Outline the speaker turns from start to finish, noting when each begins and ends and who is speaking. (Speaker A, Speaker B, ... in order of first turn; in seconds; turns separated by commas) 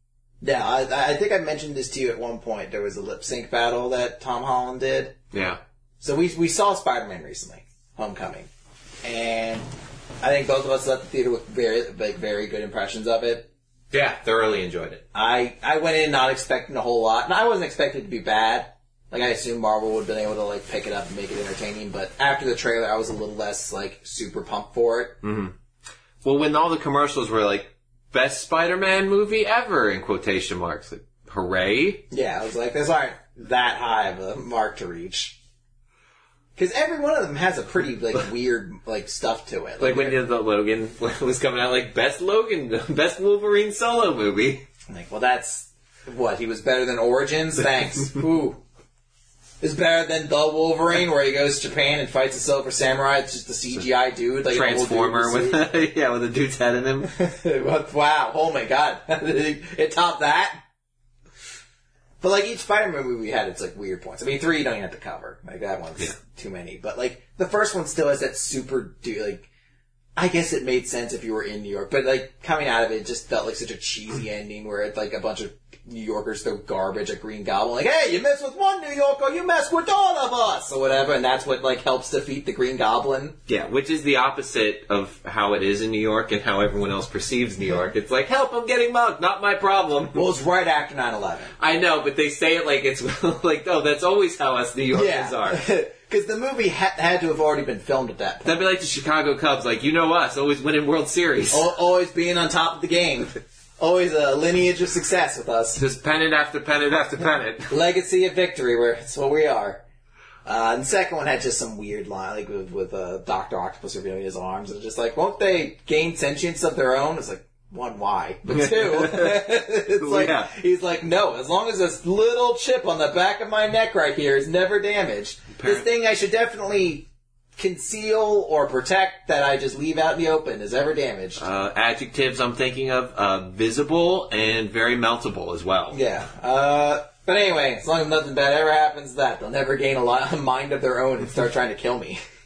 Speaker A: 0.4-5.2, Speaker B: 5.3-5.6, Speaker A: 6.0-8.5, Speaker A: 9.0-9.7, Speaker A: 10.2-13.5, Speaker B: 13.9-15.0, Speaker A: 15.1-25.2, Speaker B: 25.2-25.5, Speaker B: 26.2-32.0, Speaker A: 32.1-35.4, Speaker A: 36.5-40.2, Speaker B: 39.8-44.6, Speaker A: 44.9-48.6, Speaker A: 49.6-55.6, Speaker B: 54.5-57.1, Speaker A: 57.0-60.6, Speaker A: 62.2-69.5, Speaker A: 70.2-83.4, Speaker B: 83.5-90.2, Speaker A: 90.1-91.5, Speaker B: 91.6-95.6, Speaker A: 94.9-98.5, Speaker B: 98.4-101.7, Speaker A: 101.5-105.8, Speaker B: 105.7-107.7, Speaker A: 107.7-109.8, Speaker A: 110.5-127.0, Speaker B: 118.5-120.5, Speaker B: 125.5-125.9, Speaker A: 127.6-131.4, Speaker B: 131.4-136.0, Speaker A: 135.9-142.2